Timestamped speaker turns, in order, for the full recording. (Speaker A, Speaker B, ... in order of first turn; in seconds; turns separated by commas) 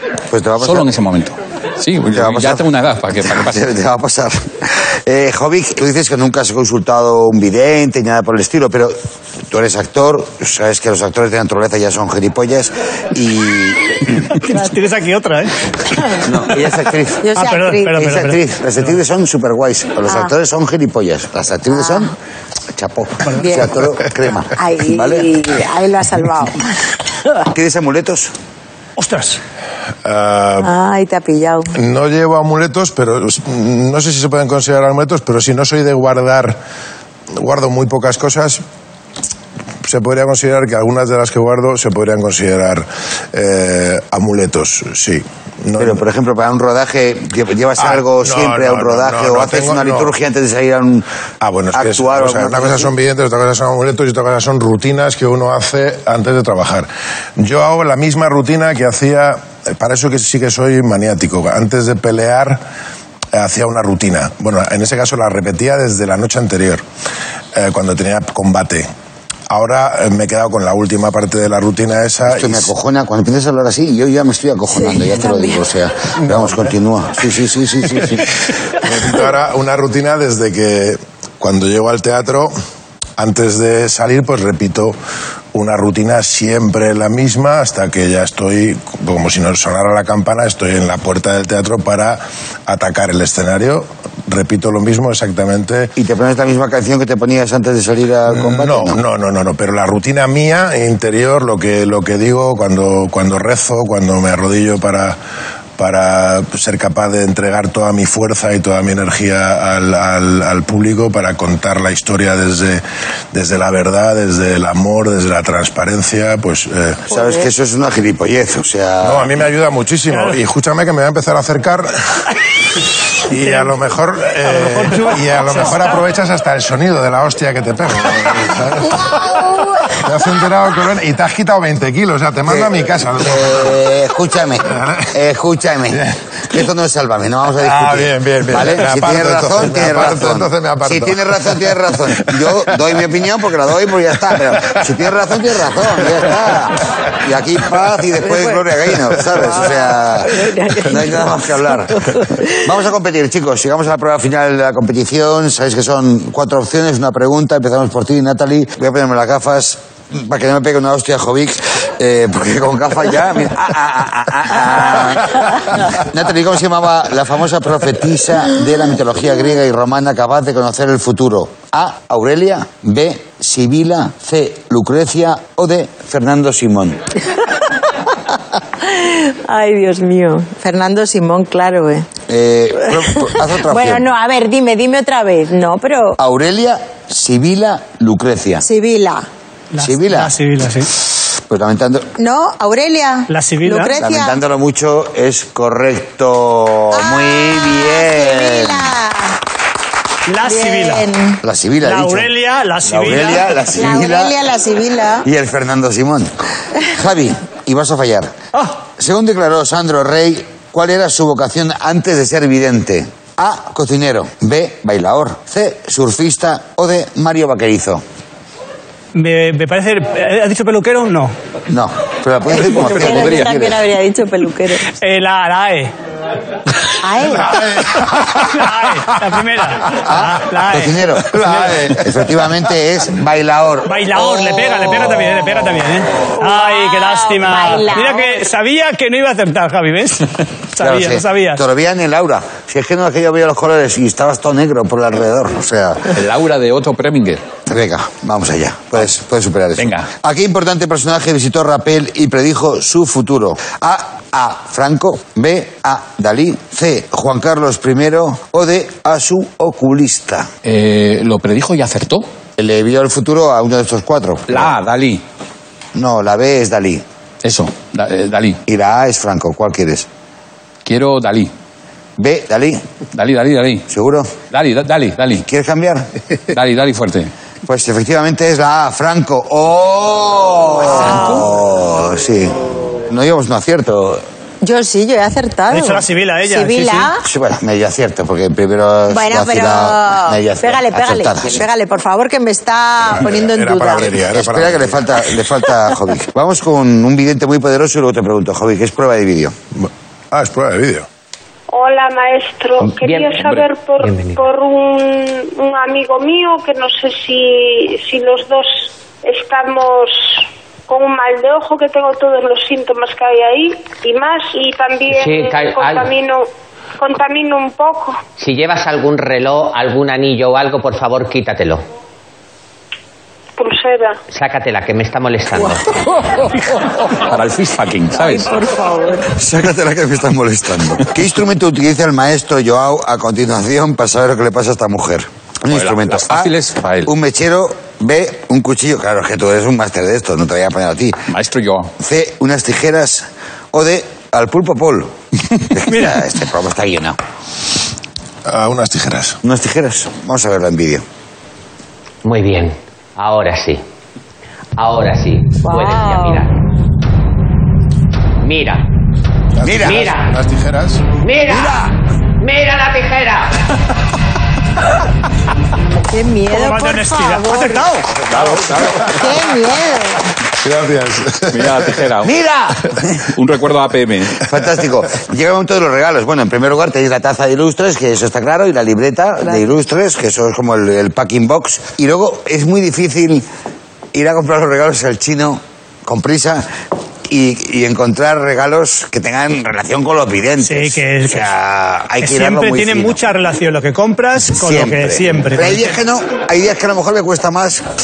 Speaker A: 0.3-0.9, Speaker B: 0.6-3.7, Speaker A: 2.0-9.0, Speaker A: 9.5-14.3, Speaker C: 14.2-16.4, Speaker A: 16.2-17.3, Speaker D: 17.2-18.0, Speaker C: 17.4-18.4, Speaker A: 17.9-22.1, Speaker D: 20.1-20.3, Speaker D: 21.7-22.1, Speaker A: 22.7-25.3, Speaker D: 23.4-23.8, Speaker D: 24.5-26.8, Speaker A: 27.5-28.3, Speaker C: 29.0-29.4, Speaker E: 30.1-30.7, Speaker D: 30.6-31.7, Speaker E: 31.8-36.6, Speaker E: 37.4-38.6, Speaker E: 39.9-46.0, Speaker A: 45.8-51.1, Speaker E: 47.8-50.1, Speaker E: 51.4-62.6, Speaker A: 51.7-52.9, Speaker E: 63.3-66.8, Speaker E: 67.5-68.9, Speaker E: 69.5-72.7, Speaker A: 72.3-78.2, Speaker D: 74.8-75.6, Speaker E: 76.2-76.7, Speaker E: 77.9-82.5, Speaker E: 83.2-85.0, Speaker E: 85.5-95.9, Speaker A: 96.0-99.0, Speaker E: 98.3-105.2, Speaker E: 105.8-112.8, Speaker E: 113.3-117.0, Speaker A: 117.1-119.4, Speaker D: 117.1-117.5, Speaker E: 119.0-122.3, Speaker C: 120.1-120.4, Speaker E: 123.2-133.9, Speaker C: 123.4-123.7, Speaker C: 124.4-126.0, Speaker D: 129.3-129.7, Speaker A: 132.5-177.0, Speaker E: 134.7-135.1, Speaker E: 135.9-136.2, Speaker E: 137.6-142.9, Speaker E: 144.5-144.8, Speaker D: 149.3-151.4, Speaker D: 151.9-152.7, Speaker D: 178.8-182.1, Speaker A: 182.3-184.1, Speaker D: 182.9-186.2, Speaker A: 186.2-188.7, Speaker D: 188.6-189.3, Speaker C: 189.7-190.9, Speaker A: 189.8-190.3, Speaker A: 191.5-192.1, Speaker D: 192.2-194.4, Speaker C: 193.3-194.0, Speaker A: 194.0-198.9, Speaker D: 196.9-199.4, Speaker C: 200.3-201.1, Speaker D: 200.4-201.4, Speaker A: 201.4-202.3, Speaker C: 201.8-203.6, Speaker A: 202.8-204.4, Speaker D: 203.8-205.3, Speaker A: 205.2-208.4, Speaker A: 208.9-218.0, Speaker C: 219.1-221.3, Speaker A: 221.7-223.8, Speaker D: 222.8-224.9, Speaker C: 224.9-225.9, Speaker D: 227.0-227.7, Speaker E: 227.4-229.2, Speaker C: 228.0-231.9, Speaker A: 230.1-235.3, Speaker E: 231.4-232.0, Speaker C: 233.8-241.6, Speaker D: 236.3-238.4, Speaker A: 240.8-246.2, Speaker B: 246.1-247.4, Speaker A: 247.7-260.5, Speaker B: 249.8-250.1, Speaker B: 260.6-262.3, Speaker A: 262.6-264.7, Speaker B: 264.5-265.2, Speaker A: 265.9-267.0, Speaker B: 267.4-268.6, Speaker A: 268.7-270.1, Speaker B: 270.9-271.5, Speaker A: 272.2-272.8, Speaker B: 273.1-273.9, Speaker A: 273.9-274.4, Speaker B: 274.5-275.4, Speaker A: 275.4-276.1, Speaker B: 276.5-277.3, Speaker A: 277.6-284.2, Speaker C: 280.8-281.5, Speaker D: 280.9-281.4, Speaker D: 284.6-287.2, Speaker C: 285.7-287.1, Speaker A: 287.2-291.6, Speaker D: 289.1-294.2, Speaker E: 293.0-295.1, Speaker A: 294.3-299.6, Speaker E: 299.8-301.1, Speaker F: 301.7-318.2, Speaker G: 302.8-304.4, Speaker G: 315.1-316.1, Speaker G: 318.4-321.8, Speaker F: 323.6-324.2, Speaker G: 324.3-325.9, Speaker D: 325.6-326.6, Speaker B: 327.1-328.5, Speaker D: 328.1-329.4, Speaker A: 329.3-336.5, Speaker B: 335.7-337.1, Speaker A: 337.1-341.2, Speaker B: 341.3-341.9, Speaker A: 342.0-345.1, Speaker A: 345.7-347.2, Speaker C: 345.9-346.2, Speaker E: 348.5-349.4, Speaker A: 349.4-351.0, Speaker G: 352.2-353.8, Speaker G: 354.8-356.5, Speaker D: 355.6-356.4, Speaker G: 358.4-358.9, Speaker E: 359.5-361.0, Speaker A: 359.6-360.1, Speaker G: 359.8-360.4, Speaker G: 361.2-363.6, Speaker A: 361.4-361.9, Speaker D: 366.1-367.9, Speaker C: 366.5-368.2, Speaker B: 368.3-369.4, Speaker E: 368.3-369.5, Speaker D: 369.1-370.3, Speaker E: 370.5-372.0, Speaker B: 371.5-372.4, Speaker A: 372.2-373.3, Speaker B: 373.2-374.5, Speaker A: 374.4-383.5, Speaker A: 384.1-386.7, Speaker A: 387.3-393.2, Speaker C: 390.6-391.5, Speaker C: 392.2-395.9, Speaker A: 394.5-397.9